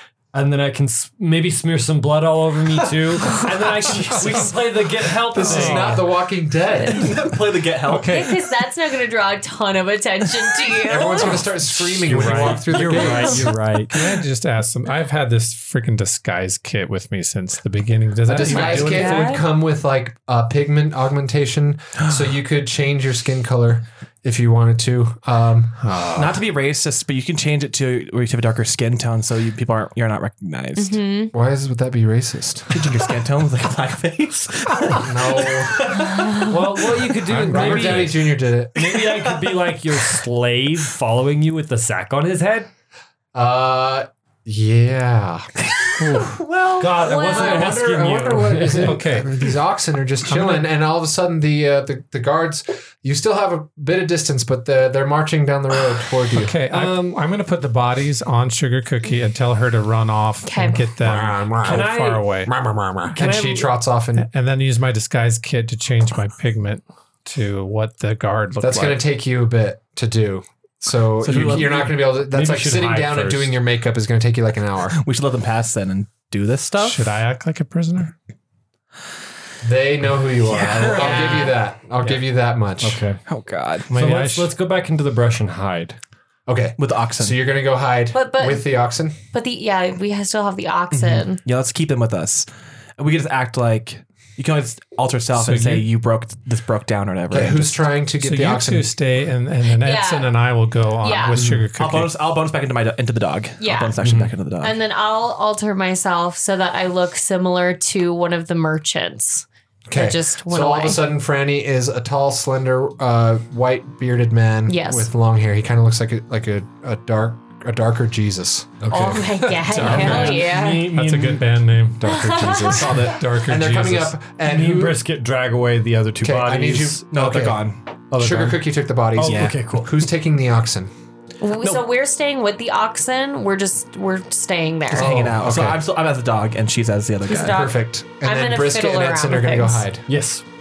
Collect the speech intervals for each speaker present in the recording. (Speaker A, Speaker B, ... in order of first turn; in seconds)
Speaker A: 0.3-6.0, 12.3-14.1, 36.5-42.7, 46.8-49.0, 56.7-57.1, 61.6-62.3, 63.1-63.7, 71.6-73.5, 80.5-81.5, 82.8-83.2, 83.9-86.0, 104.0-104.3, 118.9-119.2, 119.8-121.5, 124.4-127.0, 128.1-128.6, 129.2-129.9, 140.1-140.4
Speaker B: 4.2-4.4, 5.3-6.0, 7.9-8.3, 11.8-19.4, 25.8-26.3, 37.3-38.1, 46.0-46.4, 48.8-49.4, 50.2-50.7, 56.4-62.5, 64.2-69.0, 76.8-78.1, 83.9-84.5, 95.3-95.9, 98.2-102.1, 119.8-124.2
Speaker C: 5.3-7.1, 10.9-13.6, 18.3-26.1, 31.3-32.7, 35.0-35.8, 37.5-38.8, 43.3-45.5, 46.8-56.5, 60.9-61.9, 62.5-64.3, 68.6-75.0, 79.6-83.0, 86.5-89.2, 97.3-98.9, 109.9-119.2, 119.8-120.3, 122.0-125.0, 126.2-130.9, 134.9-135.8, 137.5-140.1
Speaker D: 6.9-8.2, 26.1-31.0, 32.7-37.1, 38.8-40.2, 46.2-46.9, 71.2-71.9, 75.0-77.0, 83.3-83.9, 86.8-87.4, 90.9-92.5, 93.0-97.8, 101.6-104.8, 119.7-120.3, 122.6-123.2, 127.1-128.5, 129.2-129.6, 134.9-137.7
Speaker E: 8.1-11.4, 18.5-19.4, 30.8-31.3, 36.1-36.5, 47.0-47.8, 60.4-60.8, 80.7-81.6, 88.1-88.7, 89.3-91.4, 99.7-100.3, 101.0-101.4, 103.6-104.0, 104.6-111.0, 114.7-115.1, 118.9-120.9, 122.0-123.1, 131.4-135.1, 137.3-139.8